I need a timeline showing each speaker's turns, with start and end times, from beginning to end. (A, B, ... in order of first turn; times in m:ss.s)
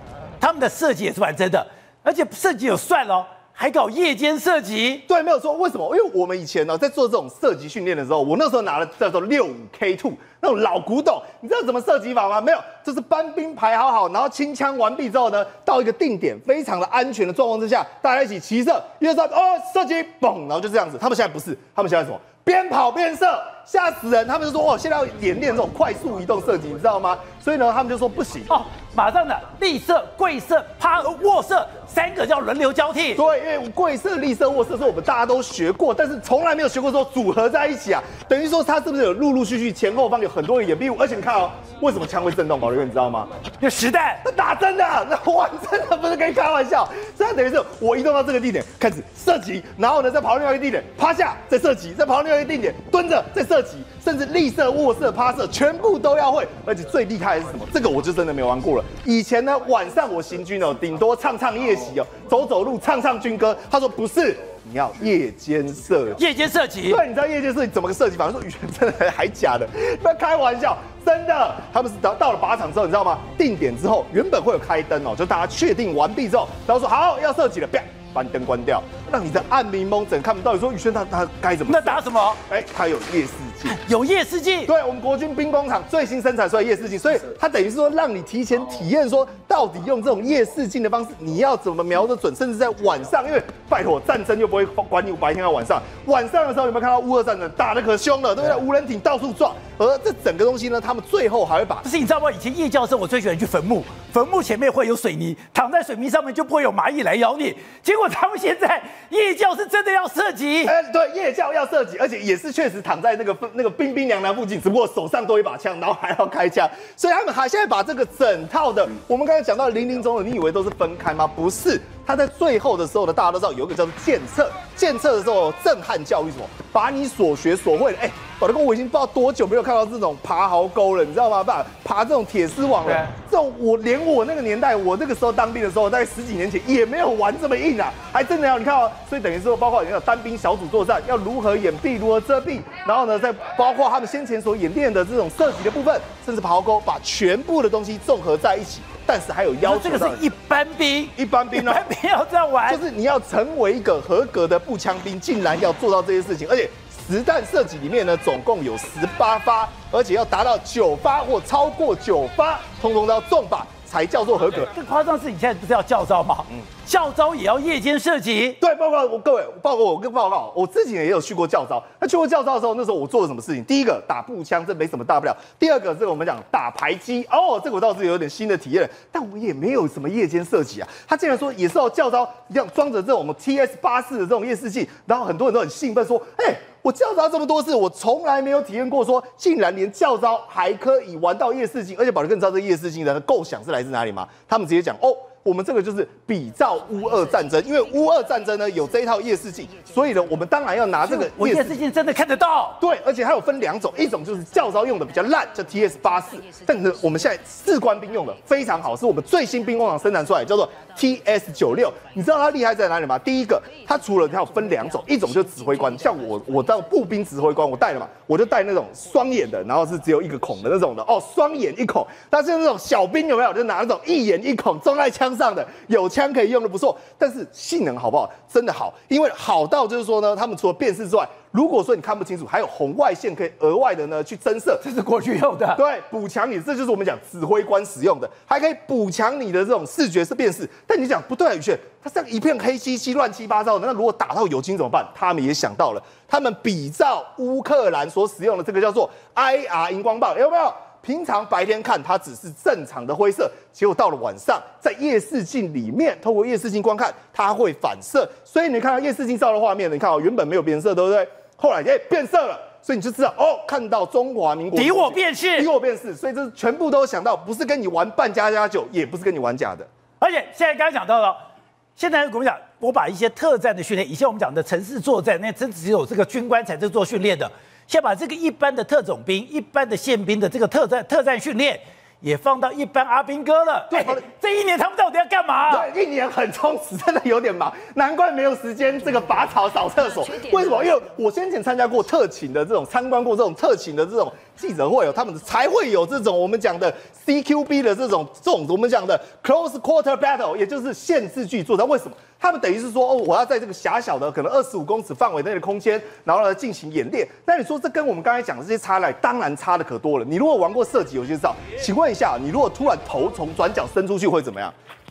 0:00.4-0:05.0 A
0:05.1-0:28.6 B
0:28.5-0:33.2 A
0:33.1-0:43.3 B
0:43.6-0:44.2 A
0:44.2-1:06.2 B
1:06.2-1:07.0 A
1:06.9-1:23.8 B
1:21.7-1:22.4 A
1:23.7-1:24.7 A
1:24.7-1:41.9 B
1:41.8-1:50.7 A
1:50.6-2:30.3 B
2:29.6-2:32.8 A
2:31.2-2:31.9 B
2:32.7-2:44.7 B
2:44.7-2:48.6 A
2:48.6-3:21.8 B
3:21.0-3:22.8 A
3:22.8-3:54.8 B
3:54.8-3:55.8 A
3:55.8-4:29.9 B
4:24.7-4:25.7 A
4:30.2-4:31.4 A
4:32.0-4:45.9 A
4:43.9-4:44.2 B
4:45.7-5:14.8 B